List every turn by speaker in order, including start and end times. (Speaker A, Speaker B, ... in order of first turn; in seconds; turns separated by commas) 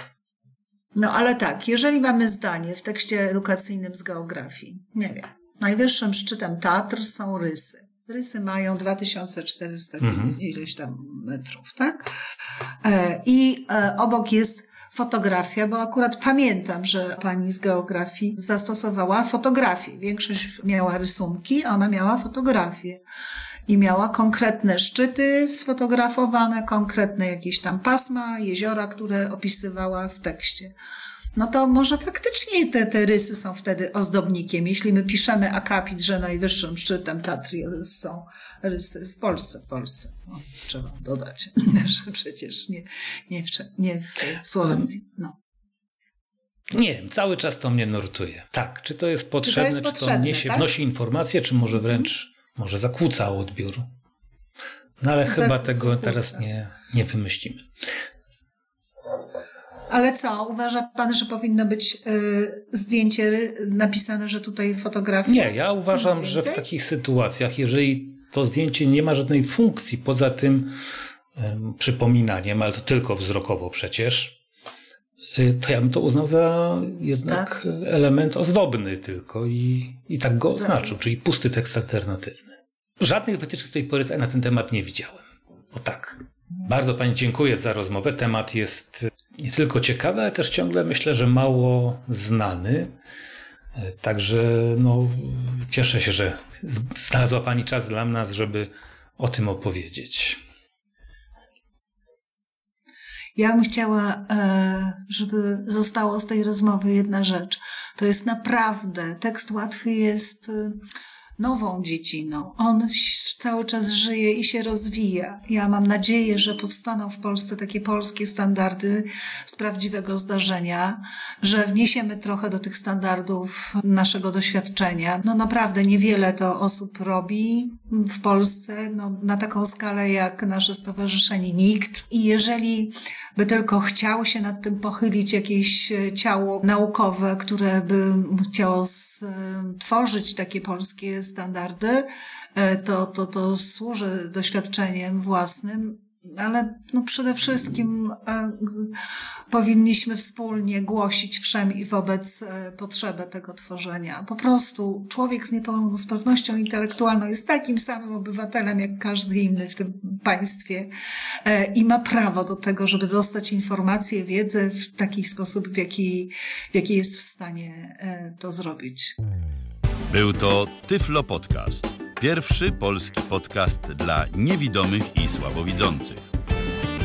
Speaker A: 0.9-12.1, Speaker B: 10.0-10.3, Speaker A: 12.8-23.0, Speaker A: 23.7-30.7, Speaker A: 31.3-45.4, Speaker B: 46.7-53.9, Speaker A: 49.4-50.7, Speaker B: 55.0-57.7, Speaker A: 55.2-56.4, Speaker A: 59.9-66.6, Speaker B: 65.3-70.8, Speaker B: 71.3-74.3, Speaker B: 75.3-92.9, Speaker A: 80.5-81.0, Speaker B: 93.7-100.4, Speaker A: 103.4-110.8, Speaker A: 111.4-160.9, Speaker A: 161.4-169.2, Speaker C: 170.1-176.3